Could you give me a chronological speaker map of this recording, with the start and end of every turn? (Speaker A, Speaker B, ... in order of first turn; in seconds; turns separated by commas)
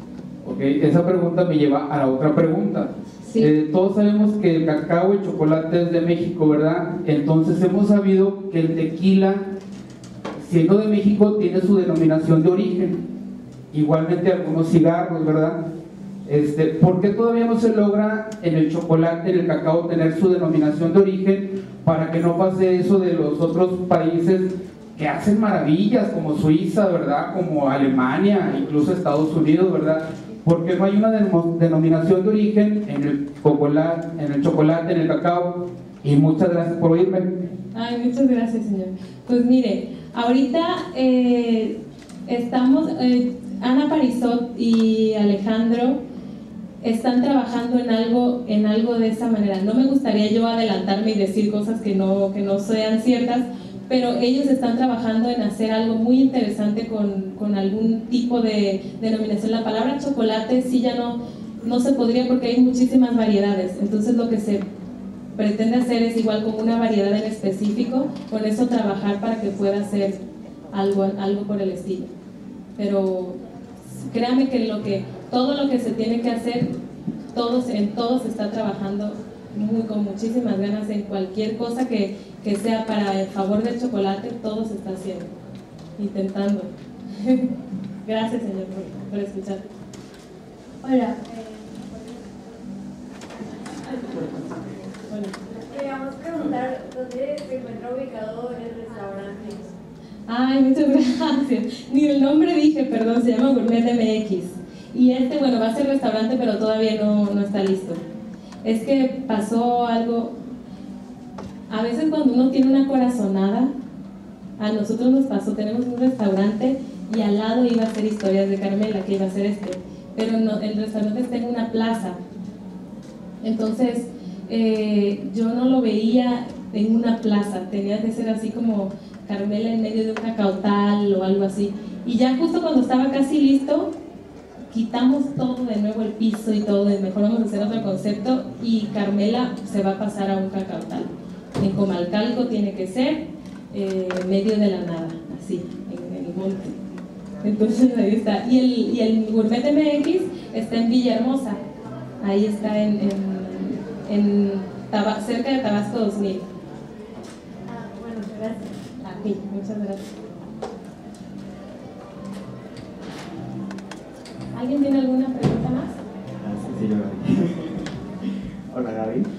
Speaker A: 0.4-9.5, Speaker B: 3.2-3.5, Speaker A: 10.4-13.0, Speaker A: 13.7-15.7, Speaker A: 16.2-37.4, Speaker B: 37.7-46.0, Speaker B: 46.8-64.6, Speaker B: 65.4-70.2, Speaker B: 70.7-72.1, Speaker B: 72.8-73.4, Speaker B: 74.0-76.7, Speaker B: 77.3-85.3, Speaker B: 86.0-87.5, Speaker B: 88.0-89.7, Speaker C: 90.8-92.3, Speaker C: 93.8-94.7, Speaker B: 95.1-95.3, Speaker C: 95.5-99.7, Speaker B: 100.3-108.0, Speaker B: 108.6-110.3, Speaker B: 111.7-113.7, Speaker B: 114.6-122.2, Speaker B: 123.4-133.9, Speaker B: 134.7-146.8, Speaker B: 147.4-151.6, Speaker B: 152.2-156.4, Speaker C: 157.7-158.7, Speaker B: 159.0-160.0, Speaker B: 164.5-165.9, Speaker D: 166.4-167.8, Speaker D: 168.7-169.3